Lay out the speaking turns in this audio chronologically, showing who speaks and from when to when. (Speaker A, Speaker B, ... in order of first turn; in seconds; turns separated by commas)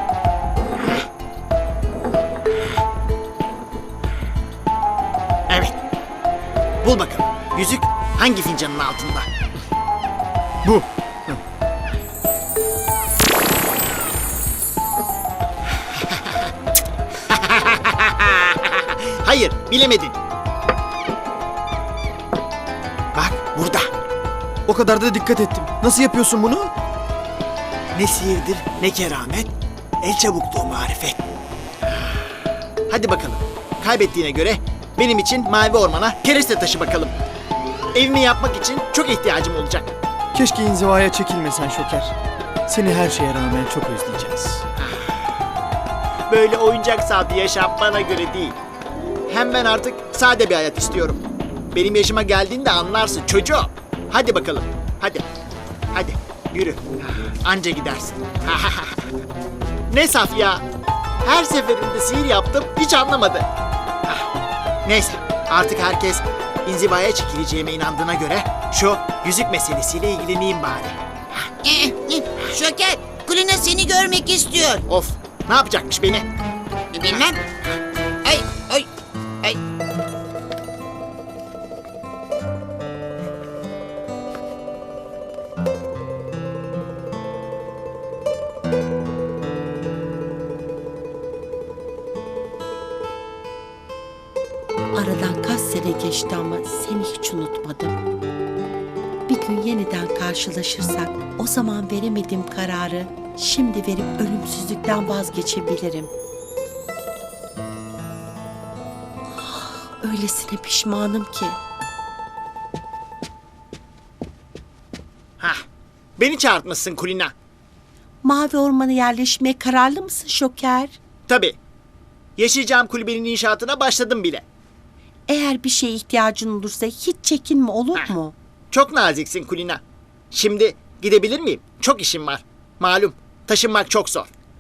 Speaker A: 5.5-5.8, Speaker A: 6.8-9.3, Speaker A: 15.9-16.5, Speaker A: 17.3-20.2, Speaker A: 23.1-23.9, Speaker B: 24.7-26.7, Speaker A: 27.9-31.2, Speaker A: 32.9-37.1, Speaker A: 38.0-39.9, Speaker B: 40.3-42.1, Speaker B: 42.7-44.6, Speaker A: 44.8-45.1, Speaker A: 46.3-48.6, Speaker A: 49.3-51.2, Speaker A: 51.7-55.3, Speaker A: 55.9-59.1, Speaker A: 59.9-60.6, Speaker A: 61.2-63.5, Speaker A: 64.8-71.0, Speaker C: 71.6-74.8, Speaker A: 74.9-76.3, Speaker C: 76.9-77.4, Speaker C: 78.2-78.9, Speaker D: 95.0-98.0, Speaker D: 99.3-106.1, Speaker D: 109.3-111.6, Speaker A: 116.2-117.3, Speaker D: 118.2-121.0, Speaker A: 121.3-121.6, Speaker A: 122.4-124.5, Speaker D: 125.3-128.3, Speaker A: 128.7-134.3